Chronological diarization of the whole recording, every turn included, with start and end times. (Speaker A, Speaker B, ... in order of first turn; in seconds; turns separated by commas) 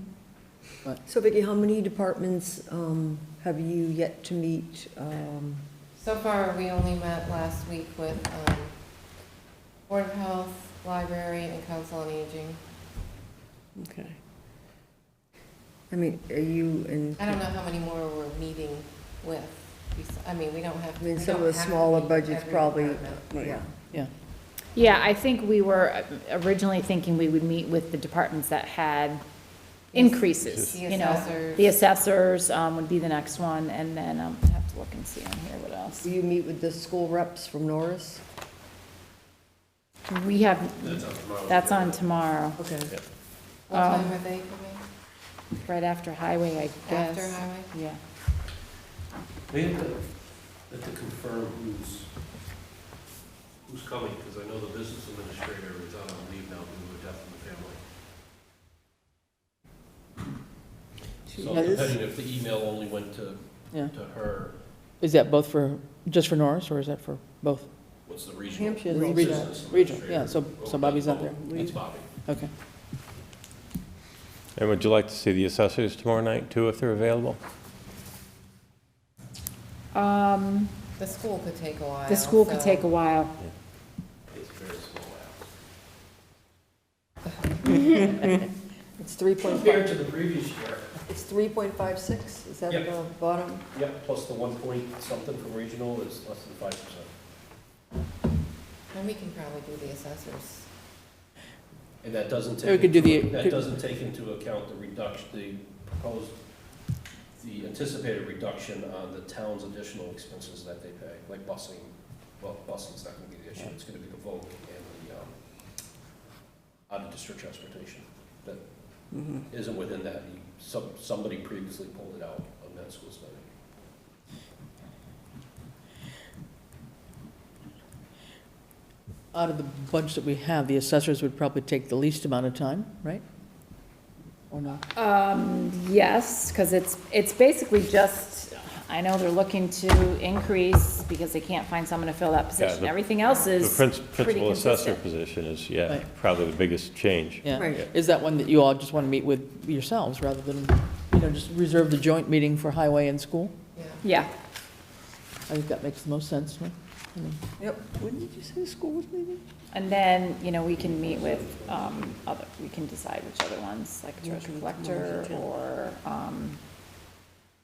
Speaker A: 1.0-5.7, Speaker B: 6.0-9.2, Speaker B: 9.9-12.6, Speaker C: 13.8-14.2, Speaker A: 15.9-17.3, Speaker B: 17.2-23.3, Speaker A: 21.0-24.0, Speaker C: 23.3-23.6, Speaker B: 24.8-25.2, Speaker D: 24.8-29.2, Speaker B: 29.9-31.9, Speaker D: 29.9-36.0, Speaker E: 30.4-30.8, Speaker A: 36.0-38.2, Speaker D: 40.1-42.6, Speaker F: 40.8-42.2, Speaker G: 42.6-42.9, Speaker B: 43.7-44.8, Speaker D: 43.7-44.1, Speaker D: 45.6-48.0, Speaker B: 46.9-47.7, Speaker F: 49.5-52.1, Speaker F: 53.6-57.8, Speaker C: 61.3-61.9, Speaker F: 61.3-64.5, Speaker G: 61.5-61.9, Speaker G: 65.0-67.7, Speaker F: 68.0-72.1, Speaker A: 68.5-69.7, Speaker G: 68.8-72.5, Speaker C: 71.4-71.7, Speaker E: 74.5-77.4, Speaker D: 79.9-80.7, Speaker B: 81.0-82.9, Speaker D: 82.1-83.3, Speaker F: 84.3-85.4, Speaker A: 89.0-90.0, Speaker F: 89.4-90.9, Speaker A: 91.1-93.7, Speaker F: 93.7-97.1, Speaker B: 98.9-100.7, Speaker F: 102.0-106.3, Speaker G: 102.6-103.6, Speaker F: 107.3-115.3, Speaker F: 116.9-118.6, Speaker C: 119.1-119.5, Speaker F: 119.5-123.5, Speaker G: 129.3-133.2, Speaker G: 134.5-134.8, Speaker D: 134.9-145.0, Speaker E: 142.6-142.9, Speaker E: 143.5-147.8, Speaker G: 147.4-153.5, Speaker A: 147.5-147.8, Speaker B: 153.7-154.0, Speaker D: 154.0-154.3, Speaker G: 155.5-157.4, Speaker C: 158.0-159.4, Speaker D: 159.7-166.6, Speaker F: 160.8-162.2, Speaker C: 164.2-165.5